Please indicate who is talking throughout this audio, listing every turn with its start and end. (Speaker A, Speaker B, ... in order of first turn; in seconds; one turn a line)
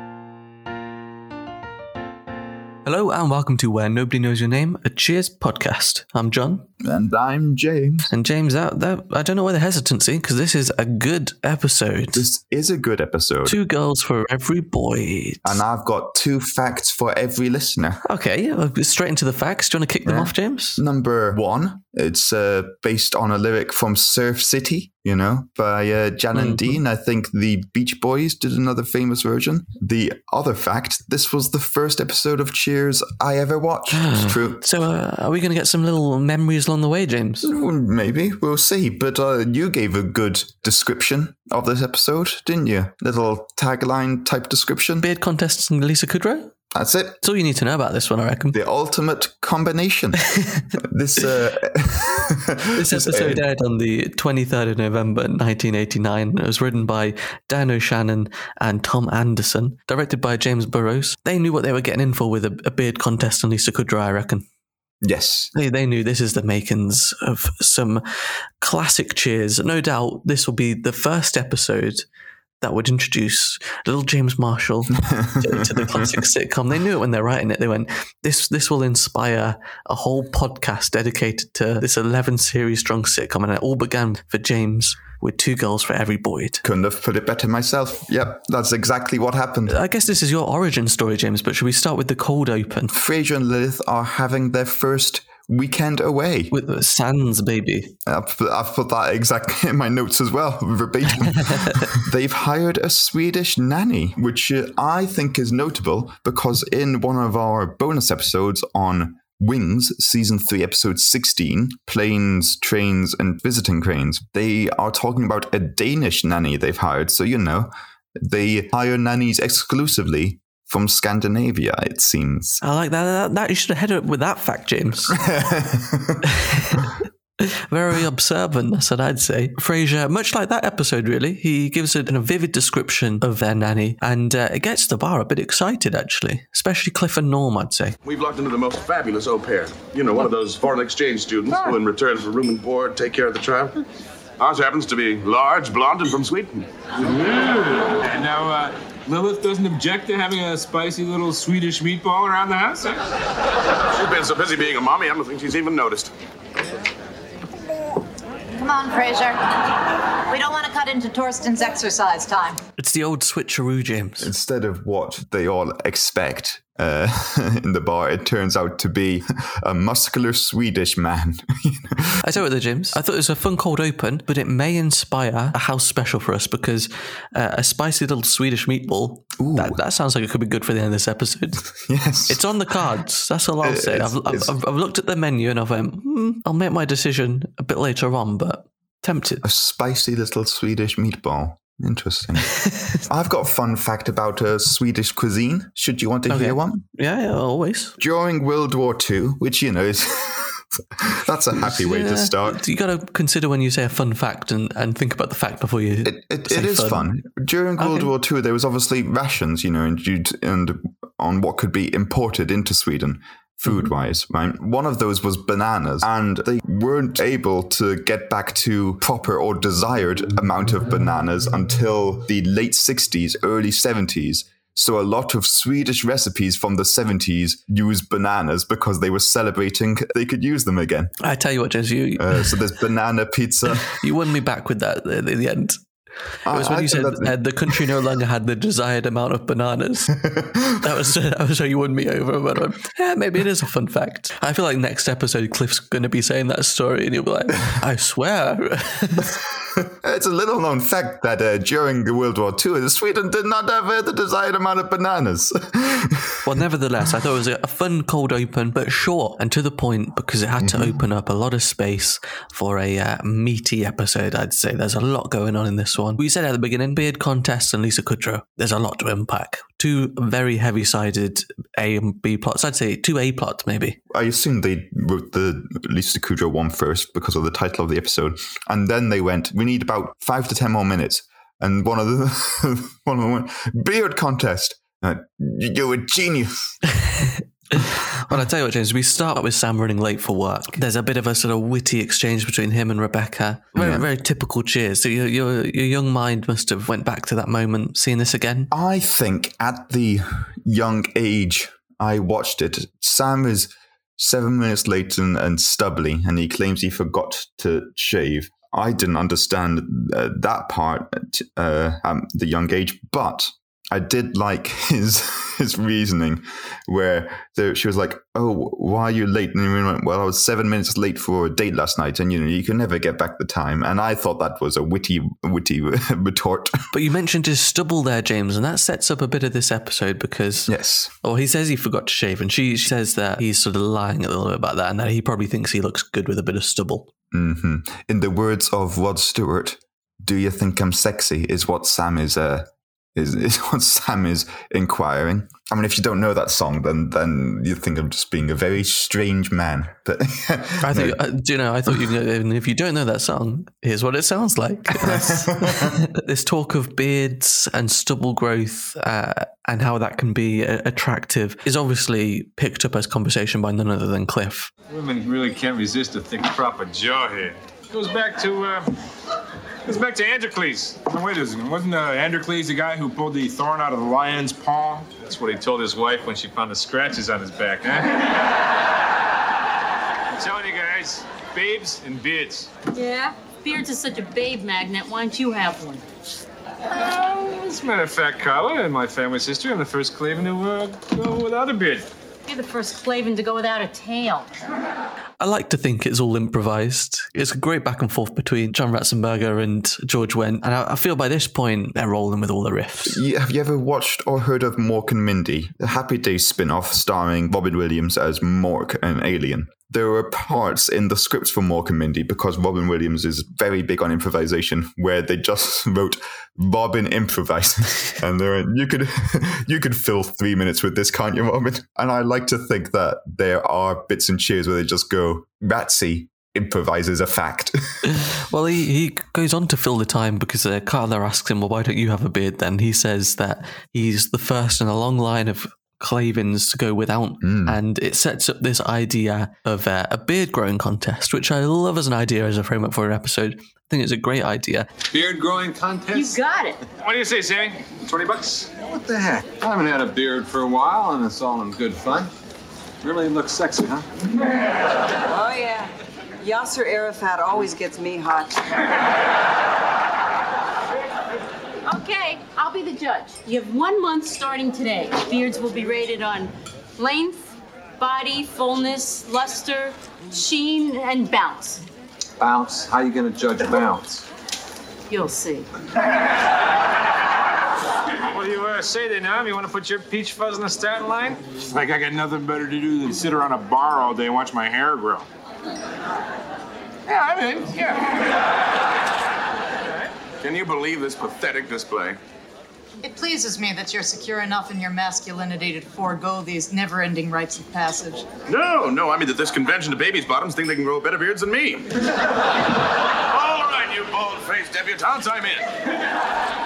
Speaker A: 2.9-6.7
Speaker B: 6.8-8.1
Speaker A: 8.1-12.3
Speaker B: 12.2-13.6
Speaker A: 13.5-15.6
Speaker B: 15.4-18.0
Speaker A: 18.0-20.8
Speaker B: 20.1-34.6
Speaker A: 26.3-26.8
Speaker A: 33.9-37.5
Speaker B: 37.4-45.1
Speaker A: 45.0-46.5
Speaker B: 46.7-47.2
Speaker A: 47.2-48.6
Speaker B: 48.5-50.2
Speaker A: 50.3-50.6
Speaker B: 50.8-53.4
Speaker A: 52.8-64.5
Speaker B: 65.0-65.5
Speaker A: 65.5-72.0
Speaker A: 72.6-86.6
Speaker B: 75.1-76.1
Speaker B: 86.6-89.8
Speaker A: 89.7-92.9
Speaker B: 92.9-96.5
Speaker A: 96.5-98.0
Speaker B: 98.1-122.6
Speaker A: 101.4-101.9
Speaker A: 122.6-125.2
Speaker B: 125.2-126.2
Speaker A: 126.3-138.0
Speaker C: 138.0-143.8
Speaker C: 144.4-146.7
Speaker D: 147.0-153.0
Speaker C: 153.9-156.1
Speaker E: 158.6-159.4
Speaker E: 160.3-162.6
Speaker A: 162.8-164.3
Speaker B: 164.2-172.2
Speaker A: 172.2-181.7
Speaker B: 179.4-179.8
Speaker B: 181.8-182.5
Speaker A: 182.3-189.4
Speaker B: 183.6-184.5
Speaker B: 189.4-196.8
Speaker A: 192.7-193.0
Speaker A: 196.3-197.9
Speaker B: 198.0-202.6
Speaker A: 201.6-207.1
Speaker B: 206.1-231.1
Speaker A: 207.8-208.1
Speaker A: 231.2-232.6
Speaker B: 232.2-234.0
Speaker A: 233.8-235.8
Speaker B: 236.4-238.0
Speaker A: 236.5-240.2
Speaker B: 240.2-240.8
Speaker A: 240.8-249.4
Speaker B: 249.6-256.4
Speaker A: 256.4-274.0
Speaker B: 260.6-261.0
Speaker B: 274.1-286.8
Speaker A: 287.2-298.7
Speaker B: 293.8-294.1
Speaker B: 298.7-326.8
Speaker A: 326.9-337.1
Speaker B: 330.7-331.1
Speaker B: 337.3-351.2
Speaker A: 350.8-364.7
Speaker B: 354.9-356.0
Speaker D: 364.9-368.9
Speaker D: 369.9-378.2
Speaker D: 380.3-382.7
Speaker F: 382.9-386.0
Speaker D: 386.9-392.1
Speaker F: 392.5-394.5
Speaker A: 395.4-403.2
Speaker B: 403.1-428.2
Speaker A: 428.1-444.9
Speaker B: 437.4-437.8
Speaker G: 445.1-446.4
Speaker F: 446.1-446.8
Speaker D: 447.0-447.9
Speaker G: 448.0-452.3
Speaker G: 453.0-454.1
Speaker H: 455.3-455.9
Speaker H: 456.4-458.6
Speaker F: 461.9-471.8
Speaker G: 472.4-474.2
Speaker F: 475.1-475.7
Speaker D: 478.3-485.3
Speaker D: 487.1-488.2
Speaker C: 490.4-492.2
Speaker E: 493.0-498.3
Speaker C: 498.5-501.9
Speaker C: 503.3-505.7